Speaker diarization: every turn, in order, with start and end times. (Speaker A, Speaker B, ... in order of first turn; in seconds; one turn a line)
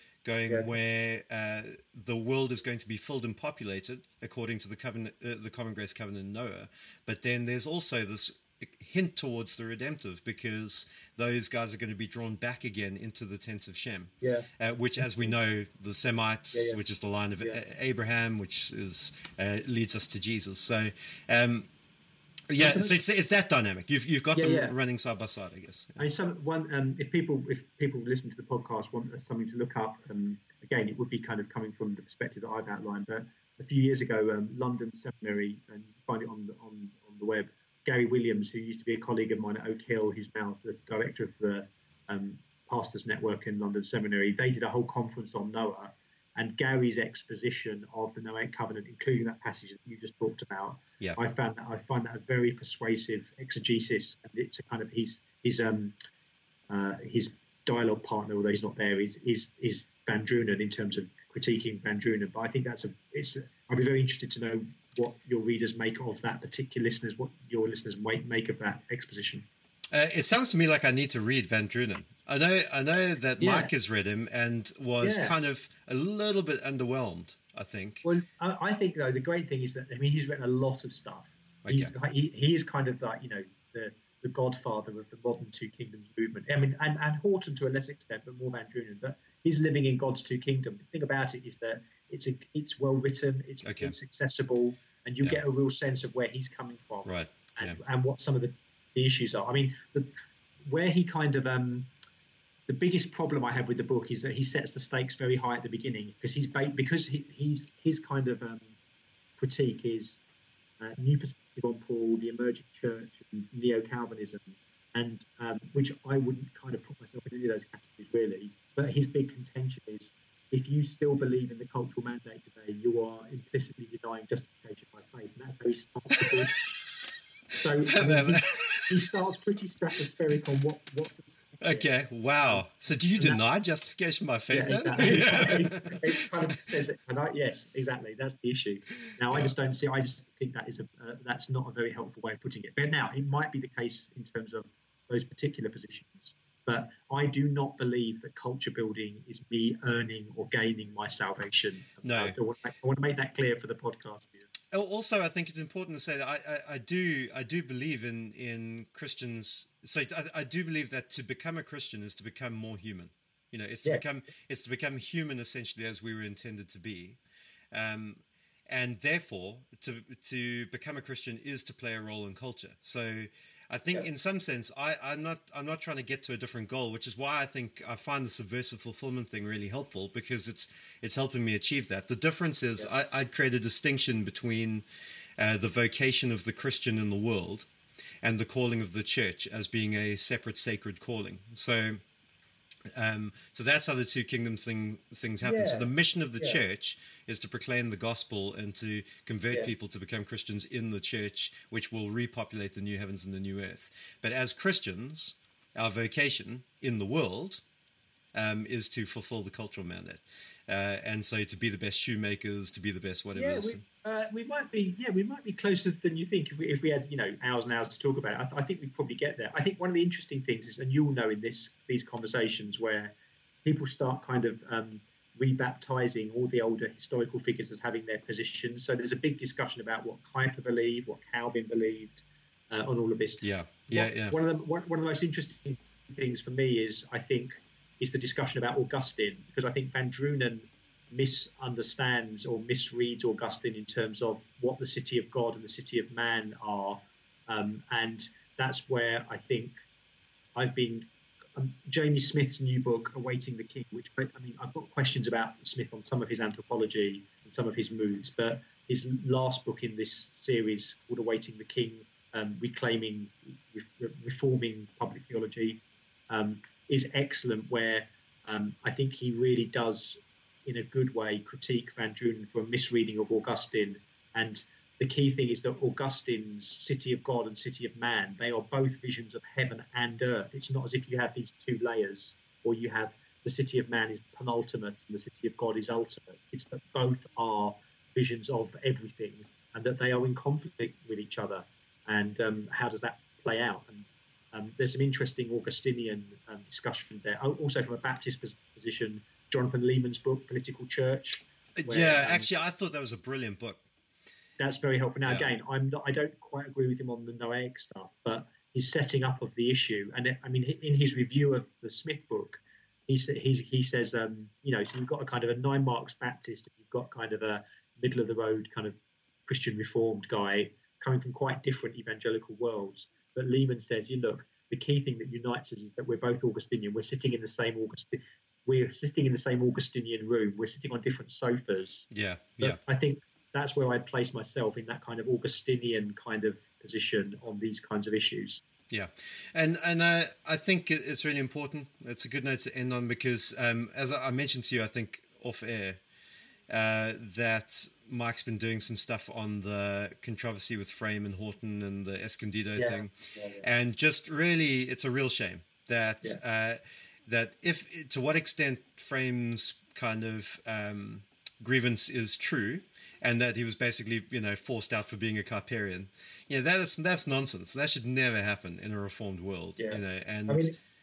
Speaker A: 0.2-21.7
Speaker B: 14.2-14.5
Speaker B: 15.0-15.3
Speaker B: 16.5-16.8
Speaker A: 22.5-26.1
Speaker B: 22.6-23.0
Speaker B: 24.4-24.8
Speaker B: 26.0-56.0
Speaker B: 56.7-69.5
Speaker A: 69.9-78.0
Speaker B: 73.4-73.7
Speaker B: 75.0-75.3
Speaker B: 78.0-100.1
Speaker A: 81.6-81.9
Speaker A: 93.6-94.0
Speaker A: 97.0-97.8
Speaker B: 100.7-101.9
Speaker B: 102.7-108.8
Speaker B: 109.4-110.2
Speaker B: 110.8-126.5
Speaker B: 127.6-131.9
Speaker A: 127.9-128.9
Speaker A: 131.6-136.0
Speaker B: 133.2-133.4
Speaker B: 134.5-154.5
Speaker A: 152.0-152.3
Speaker A: 154.7-167.2
Speaker B: 163.8-164.1
Speaker A: 167.7-184.8
Speaker A: 185.4-187.7
Speaker A: 188.2-192.0
Speaker A: 192.9-207.6
Speaker B: 195.4-196.6
Speaker A: 208.3-213.8
Speaker B: 213.3-223.1
Speaker B: 223.7-249.8
Speaker A: 233.4-234.3
Speaker B: 250.6-302.5
Speaker A: 301.8-303.8
Speaker B: 304.6-319.0
Speaker A: 305.2-305.5
Speaker B: 319.5-332.1
Speaker A: 332.1-332.8
Speaker B: 332.6-338.6
Speaker A: 338.9-346.0
Speaker A: 346.7-370.7
Speaker B: 352.8-353.7
Speaker B: 369.8-370.8